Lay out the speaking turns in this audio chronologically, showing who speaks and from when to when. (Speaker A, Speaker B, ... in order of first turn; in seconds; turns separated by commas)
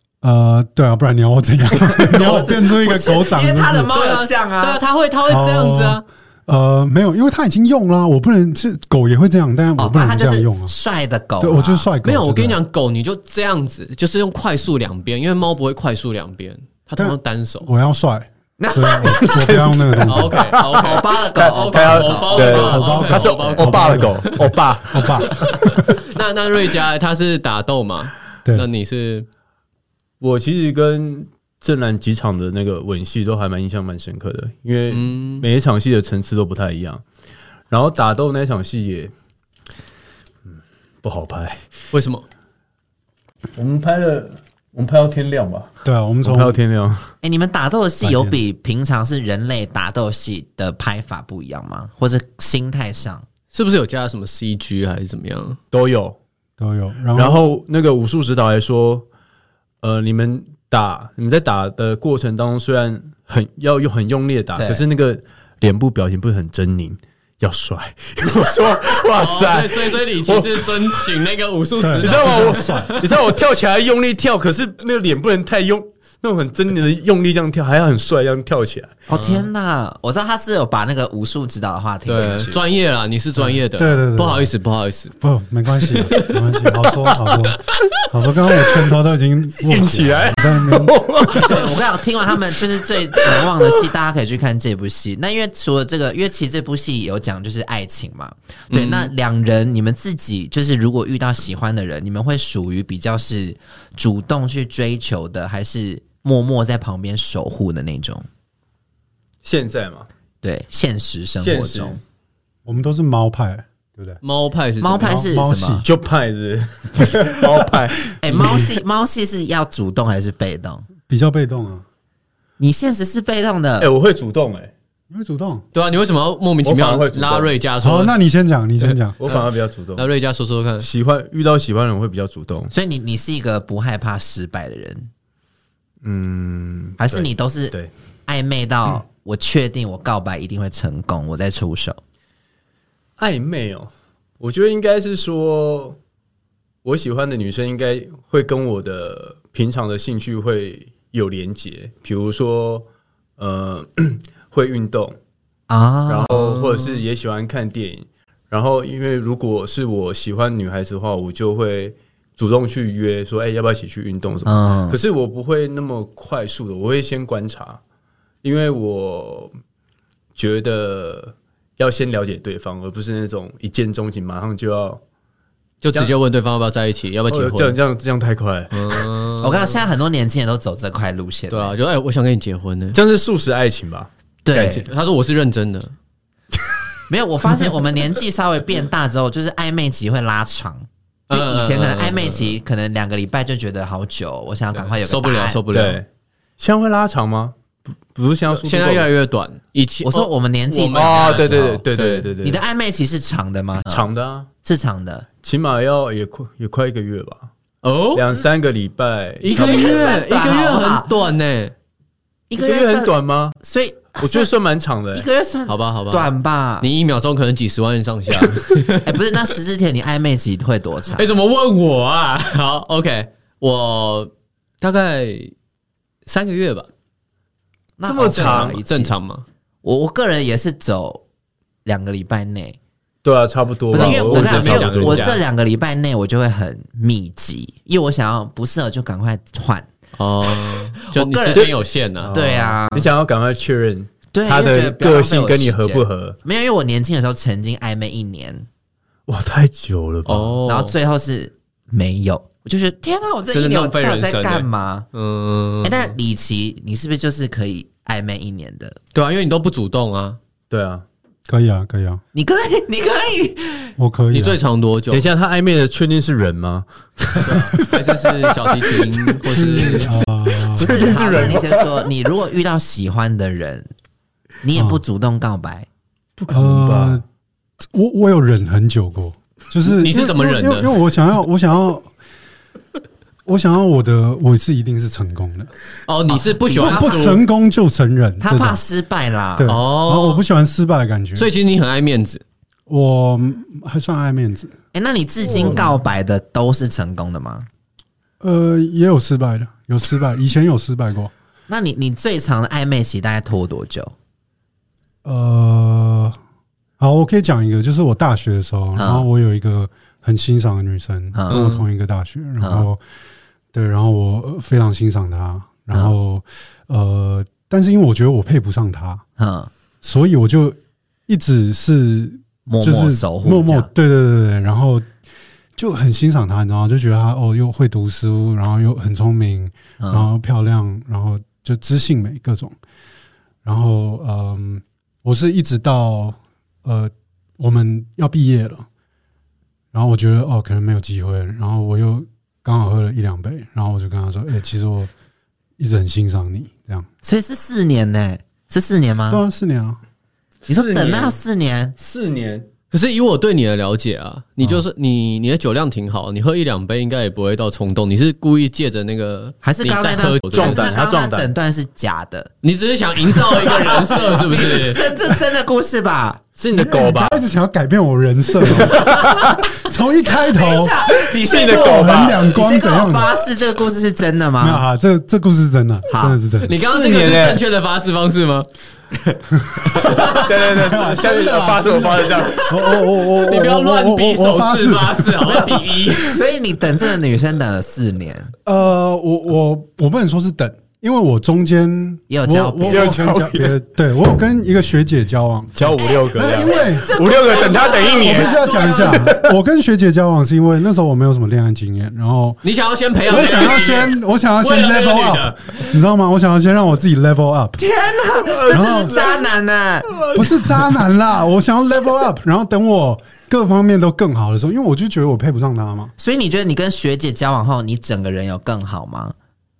Speaker A: 0.2-3.9, Speaker B: 2.0-4.8, Speaker C: 3.9-6.0, Speaker A: 5.3-10.7, Speaker B: 9.8-11.9, Speaker A: 11.4-12.6, Speaker C: 12.0-17.7, Speaker A: 17.0-20.4, Speaker B: 18.6-19.3, Speaker D: 19.1-25.7, Speaker C: 20.1-24.3, Speaker B: 20.8-23.6, Speaker A: 22.6-25.9, Speaker C: 25.0-29.3, Speaker D: 30.2-37.0, Speaker C: 34.9-35.5, Speaker D: 37.7-39.1, Speaker D: 40.5-41.7, Speaker C: 41.9-42.2, Speaker D: 43.5-45.7, Speaker A: 45.8-46.6, Speaker D: 46.2-47.1, Speaker B: 47.2-53.3, Speaker A: 48.0-48.4, Speaker C: 53.5-55.6, Speaker D: 55.7-56.2, Speaker A: 56.6-57.4, Speaker D: 57.1-59.1, Speaker D: 59.8-71.1, Speaker B: 64.6-64.8, Speaker C: 69.2-73.3, Speaker A: 71.8-73.0, Speaker D: 72.0-78.9, Speaker B: 79.1-82.6, Speaker C: 79.1-79.5, Speaker C: 82.1-85.1, Speaker A: 83.4-84.5, Speaker A: 85.2-91.0, Speaker C: 85.9-86.4, Speaker D: 89.7-91.8, Speaker B: 91.3-108.3, Speaker D: 93.1-93.5, Speaker C: 98.7-99.1, Speaker D: 109.4-110.1, Speaker B: 110.4-112.0, Speaker D: 111.4-112.0, Speaker A: 112.7-114.2, Speaker C: 114.2-115.2, Speaker B: 114.8-115.8, Speaker A: 115.0-115.9, Speaker D: 115.8-118.0, Speaker B: 118.2-120.9, Speaker A: 118.3-118.7, Speaker A: 121.1-121.8, Speaker B: 122.6-123.9, Speaker D: 123.8-124.7, Speaker A: 125.1-125.6, Speaker C: 125.7-128.2, Speaker D: 126.6-127.5, Speaker A: 127.8-129.2, Speaker C: 128.8-130.9, Speaker D: 129.2-130.1, Speaker D: 130.8-132.7, Speaker B: 132.7-135.1, Speaker D: 136.0-137.9, Speaker B: 137.0-137.7, Speaker B: 138.3-142.0, Speaker D: 143.2-146.0, Speaker D: 146.8-152.9, Speaker D: 153.4-155.2, Speaker B: 155.7-156.5, Speaker D: 156.1-167.8, Speaker C: 156.5-157.0, Speaker B: 164.5-165.0, Speaker D: 168.4-169.5, Speaker D: 170.4-175.0, Speaker C: 175.8-177.8, Speaker D: 177.3-179.1, Speaker C: 178.7-179.8, Speaker B: 179.4-181.7, Speaker C: 181.5-183.0, Speaker D: 182.9-184.8, Speaker B: 184.4-184.9, Speaker C: 184.8-185.9, Speaker B: 187.1-195.6, Speaker C: 191.3-192.6, Speaker C: 194.7-196.0, Speaker D: 195.7-196.1, Speaker D: 196.6-197.6, Speaker D: 198.1-199.1, Speaker C: 198.6-202.3, Speaker B: 200.0-201.8, Speaker D: 200.9-202.6, Speaker B: 202.4-204.1, Speaker D: 203.9-204.5, Speaker B: 204.6-205.3, Speaker D: 205.4-207.5, Speaker C: 207.8-208.3, Speaker D: 208.1-210.2, Speaker C: 209.4-211.7, Speaker B: 209.5-211.1, Speaker B: 212.5-214.5, Speaker D: 212.6-213.6, Speaker D: 214.2-215.3, Speaker B: 215.1-216.9, Speaker C: 215.7-216.3, Speaker C: 216.8-219.2, Speaker B: 219.1-221.3, Speaker C: 221.2-225.5, Speaker C: 226.3-226.9, Speaker B: 228.0-229.1, Speaker D: 228.1-228.8, Speaker C: 228.2-229.4, Speaker B: 229.8-231.2, Speaker B: 231.8-232.8, Speaker D: 233.2-235.4, Speaker B: 233.9-239.9, Speaker C: 233.9-235.4, Speaker C: 240.2-242.3, Speaker B: 240.5-241.7, Speaker D: 241.5-246.4, Speaker B: 242.3-243.1, Speaker B: 244.3-248.7, Speaker D: 249.3-250.6, Speaker C: 250.3-250.9, Speaker B: 250.7-255.1, Speaker C: 253.5-256.1, Speaker B: 255.8-259.0, Speaker C: 259.1-260.4, Speaker D: 260.7-261.1, Speaker A: 261.5-262.2, Speaker B: 262.3-263.9, Speaker A: 264.0-264.6, Speaker C: 264.3-265.3, Speaker D: 265.1-268.0, Speaker C: 267.4-270.2, Speaker D: 268.5-269.1, Speaker A: 269.5-271.4, Speaker B: 270.8-273.9, Speaker D: 270.8-272.0, Speaker B: 274.6-275.9, Speaker A: 274.8-275.0, Speaker D: 276.4-277.2, Speaker A: 276.5-277.2, Speaker A: 277.9-282.1, Speaker C: 279.9-280.9, Speaker A: 283.5-285.7, Speaker C: 286.1-287.4, Speaker B: 286.3-287.3, Speaker A: 286.8-288.8, Speaker B: 288.4-289.8, Speaker A: 289.6-291.5, Speaker C: 289.7-290.4, Speaker C: 291.4-292.4, Speaker A: 292.9-294.7, Speaker B: 294.9-297.7, Speaker A: 298.4-301.3, Speaker B: 301.7-304.1, Speaker A: 305.2-306.4, Speaker A: 307.0-313.0, Speaker B: 309.0-309.3, Speaker B: 311.3-311.6, Speaker C: 311.5-311.9, Speaker B: 312.6-312.9, Speaker A: 313.7-319.2, Speaker B: 319.4-319.7, Speaker A: 320.0-320.8, Speaker A: 321.3-325.1, Speaker B: 322.7-323.9, Speaker A: 325.8-332.8, Speaker B: 330.0-330.3, Speaker A: 333.6-338.9, Speaker A: 339.9-345.1, Speaker A: 345.8-347.1, Speaker B: 347.2-349.4, Speaker A: 349.3-350.0, Speaker D: 350.7-351.4, Speaker B: 350.7-351.9, Speaker D: 352.0-352.7, Speaker C: 352.9-360.9, Speaker B: 359.6-362.5, Speaker D: 360.5-361.5, Speaker C: 362.6-365.0, Speaker B: 363.6-366.4, Speaker D: 366.6-367.4, Speaker A: 366.7-373.3, Speaker D: 368.7-369.5, Speaker B: 370.4-374.8, Speaker D: 371.3-372.4, Speaker A: 374.6-376.8, Speaker B: 376.1-376.4, Speaker C: 376.6-378.7, Speaker D: 376.8-377.6, Speaker C: 380.0-380.5, Speaker D: 380.1-382.7, Speaker A: 380.6-386.0, Speaker C: 383.4-386.4, Speaker B: 386.2-388.5, Speaker A: 388.7-397.1, Speaker B: 392.3-393.2, Speaker D: 392.9-393.8, Speaker D: 395.8-399.5, Speaker B: 396.1-399.1, Speaker A: 398.1-402.6, Speaker C: 402.6-405.7, Speaker A: 403.3-407.8, Speaker B: 407.8-410.1, Speaker D: 408.4-409.4, Speaker A: 408.7-409.2, Speaker D: 410.1-410.9, Speaker A: 410.3-416.1, Speaker B: 416.2-419.4